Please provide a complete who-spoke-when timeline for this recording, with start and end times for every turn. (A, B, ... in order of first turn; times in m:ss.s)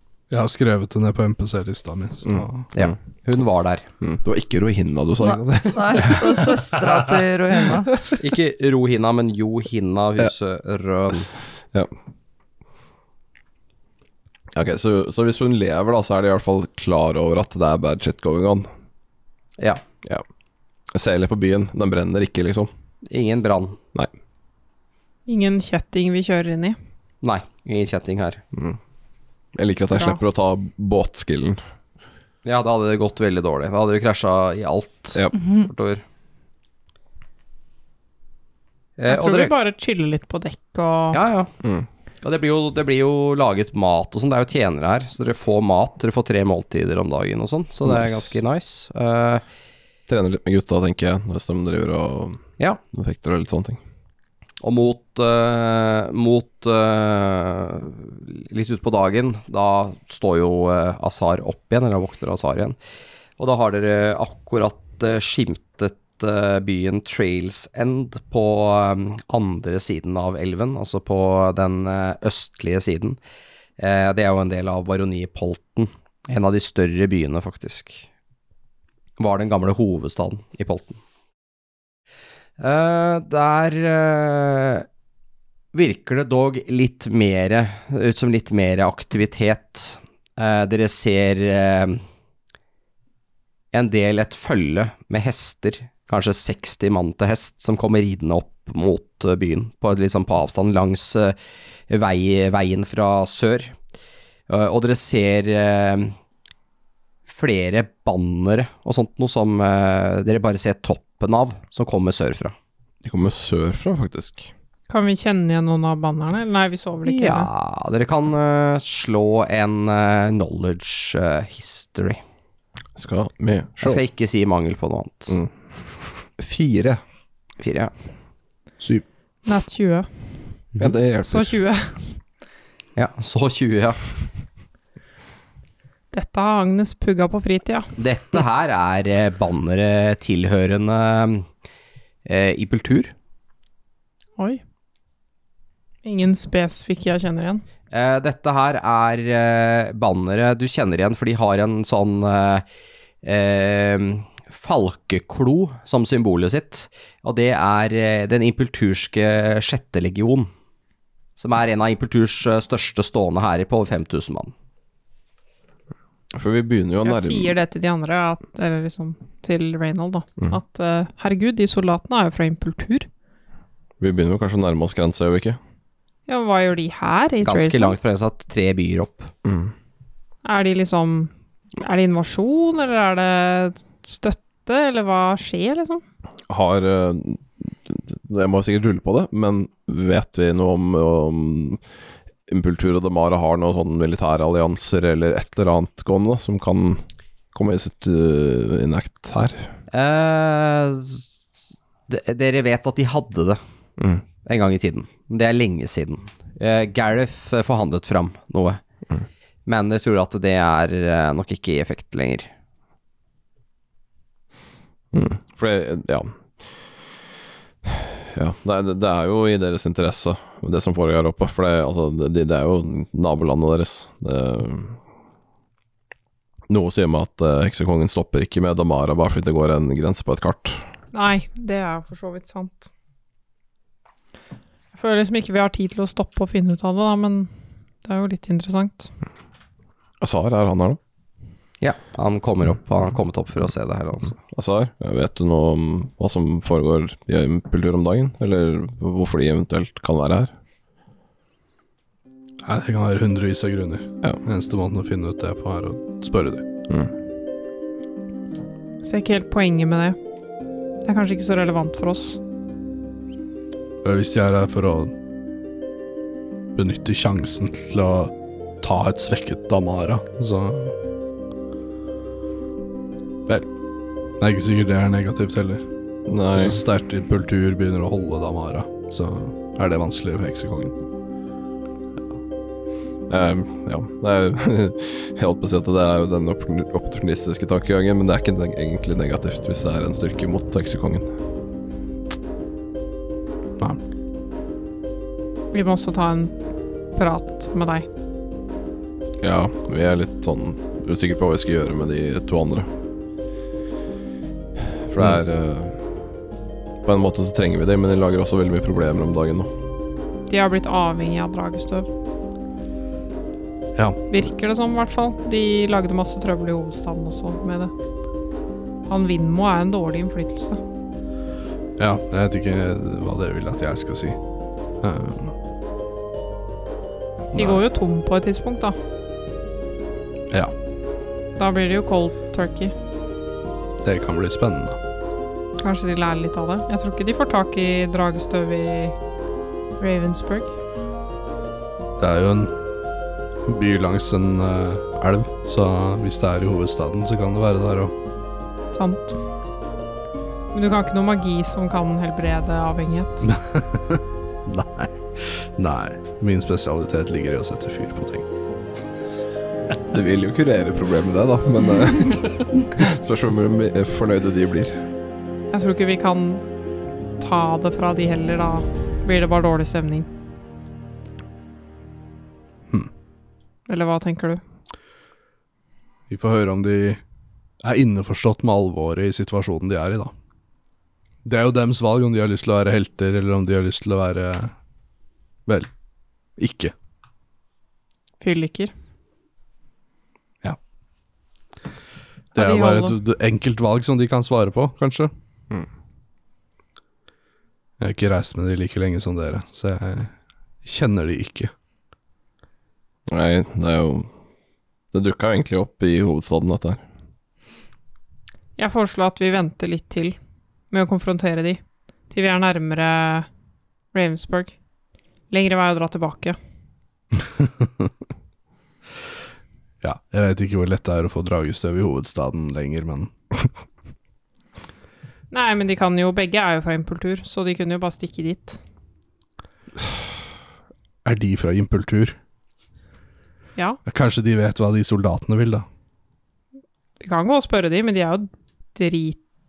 0:00.3-0:02.6 A
0:02.2-0:02.9 B
0:02.7-0:03.9 C
0:04.0-0:06.4 B
0:05.2-0:08.0 D
0:08.2-0:11.3 C
0:14.5-0:18.7 B
0:19.6-0:19.8 C
0:20.9-0:22.7 B
0:23.0-0:23.8 C
0:25.3-0:26.8 E
0:27.2-0:28.4 C
0:28.5-0:28.8 B
0:29.5-0:31.6 B
0:32.4-0:36.0 C
0:39.0-0:39.5 C
0:39.1-0:41.2 E
0:41.1-0:41.5 C
0:41.6-0:41.9 B
0:42.2-0:49.4 C
0:47.9-0:48.3 B
0:50.1-0:53.8 B
0:54.6-1:02.8 C
1:03.4-1:13.2 C
1:13.8-1:18.0 C
1:19.2-1:21.0 C
1:22.6-1:24.8 C
1:25.7-1:32.0 C
1:33.7-1:41.4 C
1:41.9-1:43.7 C
1:44.5-1:46.1 C
1:47.3-1:52.5 C
1:53.0-1:54.5 B
1:54.9-1:57.5 E
1:57.0-2:02.2 C
2:03.0-2:04.0 B
2:03.8-2:05.4 C
2:05.3-2:07.0 B
2:07.6-2:07.9 C
2:08.8-2:09.0 A
2:09.4-2:10.1 E
2:10.8-2:11.5 B
2:11.3-2:12.2 E
2:13.0-2:14.0 C
2:16.1-2:17.9 E
2:18.0-2:21.5 C
2:22.2-2:23.1 C
2:26.0-2:27.6 E
2:27.9-2:32.6 C
2:33.2-2:40.5 C
2:41.4-2:44.5 C
2:46.3-2:47.5 B
2:47.0-2:53.1 E
2:54.0-2:55.6 B
2:56.3-2:58.0 E
2:57.4-2:59.3 C
2:59.4-2:59.7 B
3:00.4-3:06.0 E
3:06.5-3:11.8 B
3:12.5-3:19.7 B
3:19.9-3:21.2 C
3:22.1-3:23.6 C
3:24.0-3:24.2 B
3:24.4-3:28.8 C
3:29.6-3:32.5 C
3:35.1-3:36.6 B
3:37.8-3:45.0 B
3:46.7-3:50.8 B
3:51.1-3:52.9 E
3:54.9-3:57.5 E
3:58.0-3:59.1 E
4:00.2-4:01.0 B
4:01.8-4:04.4 C
4:04.4-4:10.5 B
4:12.6-4:16.6 A
4:19.0-4:20.2 E
4:21.0-4:22.4 E
4:24.0-4:25.1 A
4:26.7-4:31.0 A
4:34.4-4:35.8 A
4:36.3-4:36.8 B
4:36.5-4:41.0 A
4:43.3-4:51.3 B
4:55.7-4:56.6 E
4:57.1-4:58.1 E
4:59.4-5:02.9 B
5:05.0-5:06.0 B
5:07.0-5:09.7 B
5:10.5-5:12.1 E
5:14.0-5:14.2 A
5:14.3-5:17.9 E
5:19.1-5:20.8 E
5:22.0-5:24.4 A
5:25.0-5:25.5 A
5:27.5-5:27.8 A
5:27.5-5:29.0 E
5:31.6-5:32.9 E
5:34.0-5:35.0 A
5:35.8-5:39.2 E
5:40.0-5:40.7 E
5:42.2-5:42.8 A
5:43.6-5:48.1 A
5:48.9-5:49.4 E
5:50.7-5:53.5 E
5:53.4-5:58.4 A
6:00.1-6:05.0 B
6:05.7-6:06.6 E
6:07.4-6:10.3 E
6:13.9-6:14.6 E
6:16.3-6:17.2 A
6:17.8-6:20.3 A
6:21.4-6:24.7 A
6:25.6-6:25.9 A
6:26.6-6:26.9 A
6:28.4-6:28.9 E
6:32.5-6:35.3 A
6:32.6-6:33.2 E
6:38.0-6:40.3 A
6:40.8-6:41.7 A
6:43.3-6:44.3 B
6:45.1-6:47.0 B
6:48.8-6:50.4 E
6:50.9-6:53.5 E
6:54.1-6:54.7 E
6:55.5-6:56.6 E
6:57.3-6:58.1 A
7:00.0-7:03.3 A
7:05.5-7:08.8 E
7:11.2-7:12.4 A
7:14.0-7:15.8 A
7:17.2-7:19.4 E